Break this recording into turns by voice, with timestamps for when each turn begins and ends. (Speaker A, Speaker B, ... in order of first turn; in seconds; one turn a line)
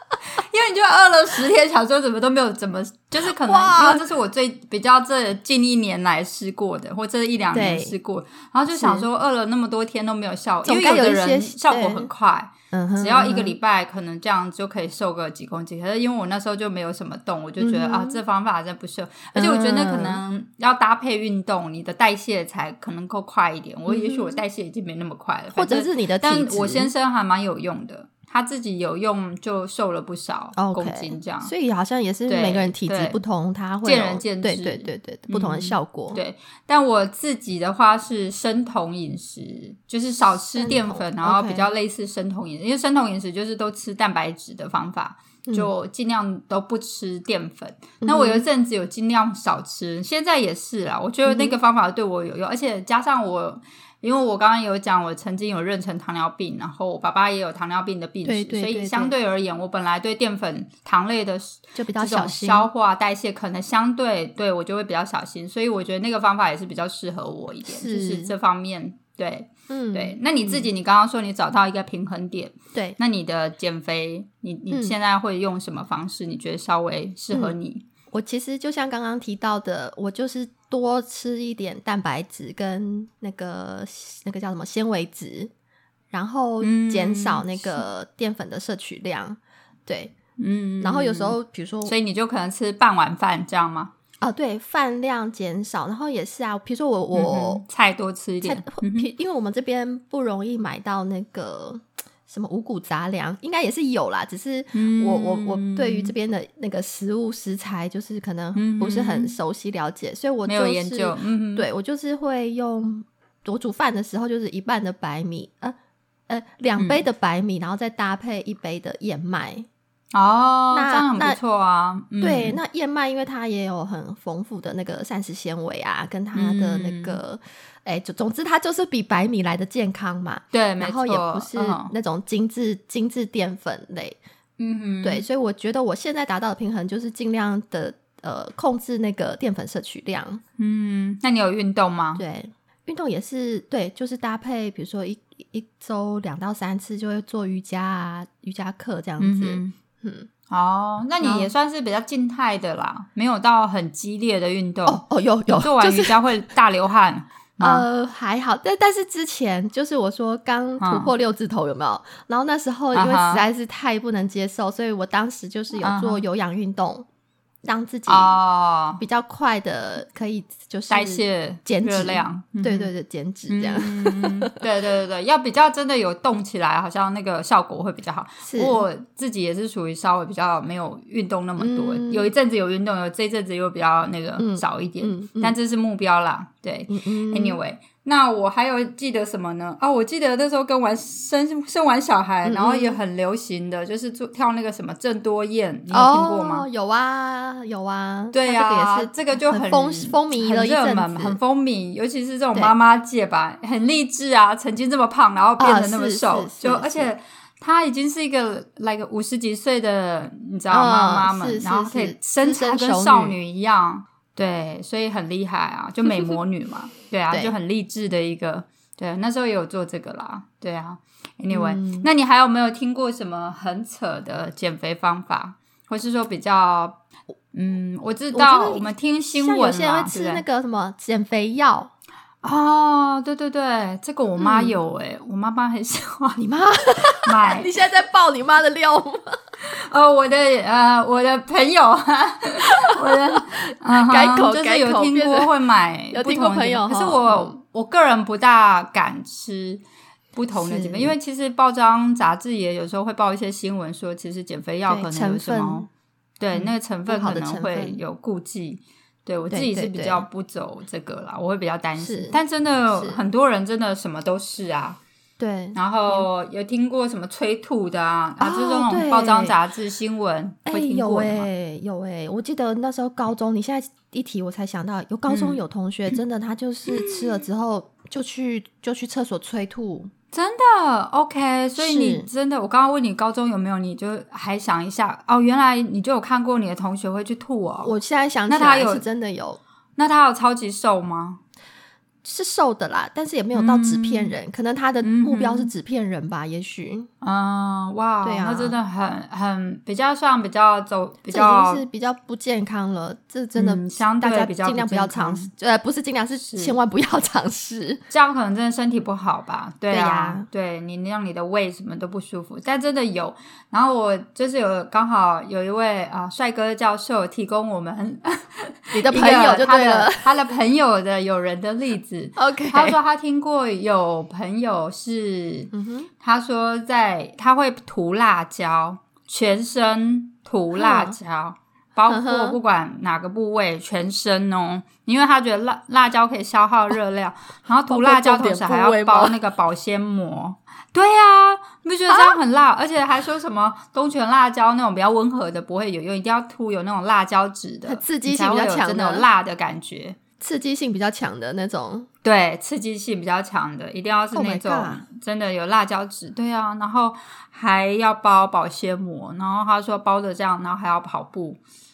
Speaker A: 0.5-31.5
Speaker B: 3.2-4.0
Speaker B: 7.5-7.9
Speaker B: 8.7-9.1
Speaker B: 10.6-12.1
Speaker B: 12.7-13.6
Speaker B: 17.6-18.2
Speaker B: 19.3-20.2
Speaker B: 23.9-24.4
Speaker B: 25.5-26.9
Speaker B: 30.6-36.2
Speaker A: 32.3-33.2
Speaker A: 33.8-77.8
Speaker B: 40.5-41.7
Speaker B: 48.0-48.4
Speaker B: 51.2-51.6
Speaker B: 58.2-59.1
Speaker B: 61.8-62.7
Speaker B: 67.7-68.3
Speaker B: 69.7-70.7
Speaker B: 78.1-85.5
Speaker B: 86.1-90.1
Speaker A: 86.6-87.8
Speaker A: 90.4-93.9
Speaker B: 90.8-91.9
Speaker B: 94.2-97.6
Speaker A: 97.1-99.1
Speaker B: 98.4-115.8
Speaker A: 104.7-106.1
Speaker A: 108.5-109.3
Speaker A: 110.5-111.7
Speaker B: 116.3-119.7
Speaker A: 116.8-117.0
Speaker A: 120.1-122.6
Speaker B: 120.7-121.4
Speaker B: 122.2-134.2
Speaker A: 126.3-127.2
Speaker A: 130.5-131.9
Speaker A: 134.6-135.2
Speaker B: 135.0-140.4
Speaker A: 140.6-142.2
Speaker B: 142.2-150.3
Speaker A: 149.2-149.7
Speaker A: 150.5-157.8
Speaker B: 151.2-151.5
Speaker B: 154.8-156.1
Speaker B: 157.6-167.1
Speaker A: 160.8-161.1
Speaker A: 162.9-163.4
Speaker A: 165.8-166.2
Speaker B: 167.6-168.4
Speaker A: 168.1-169.0
Speaker B: 169.0-174.5
Speaker A: 170.9-172.9
Speaker A: 173.5-196.7
Speaker B: 178.4-178.8
Speaker B: 181.6-182.3
Speaker B: 184.4-185.5
Speaker B: 186.9-187.6
Speaker B: 192.4-193.0
Speaker B: 195.9-201.4
Speaker A: 198.3-227.0
Speaker B: 205.6-207.1
Speaker B: 210.7-213.4
Speaker B: 216.0-216.4
Speaker B: 221.5-222.1
Speaker A: 227.5-230.4
Speaker B: 228.3-231.9
Speaker A: 232.4-236.4
Speaker B: 234.4-234.8
Speaker B: 236.4-239.4
Speaker A: 237.2-237.7
Speaker A: 239.6-249.8
Speaker B: 243.9-245.5
Speaker B: 246.1-247.5
Speaker A: 250.3-255.9
Speaker B: 250.5-251.1
Speaker B: 254.9-255.8
Speaker A: 256.4-265.0
Speaker B: 256.5-258.0
Speaker B: 259.5-260.2
Speaker B: 262.0-262.4
Speaker B: 262.9-263.2
Speaker B: 265.4-266.3
Speaker A: 265.7-271.5
Speaker B: 268.4-269.5
Speaker B: 270.6-280.1
Speaker A: 275.3-275.6
Speaker A: 276.9-277.4
Speaker A: 280.3-287.9
Speaker B: 281.8-282.3
Speaker B: 287.8-289.6
Speaker A: 288.5-289.0
Speaker A: 290.0-291.4
Speaker B: 292.2-297.1
Speaker A: 293.5-294.3
Speaker A: 295.0-295.7
Speaker A: 297.2-301.8
Speaker B: 298.2-298.8
Speaker B: 301.3-308.0
Speaker A: 303.6-305.5
Speaker A: 306.3-306.8
Speaker A: 308.1-350.2
Speaker B: 309.9-310.4
Speaker B: 318.9-320.3
Speaker B: 322.4-323.0
Speaker B: 325.7-326.1
Speaker B: 330.7-331.1
Speaker B: 332.1-332.6
Speaker B: 337.9-339.4
Speaker B: 342.1-342.4
Speaker B: 347.9-349.2
Speaker B: 350.4-352.1
Speaker A: 352.2-361.6
Speaker B: 354.3-355.0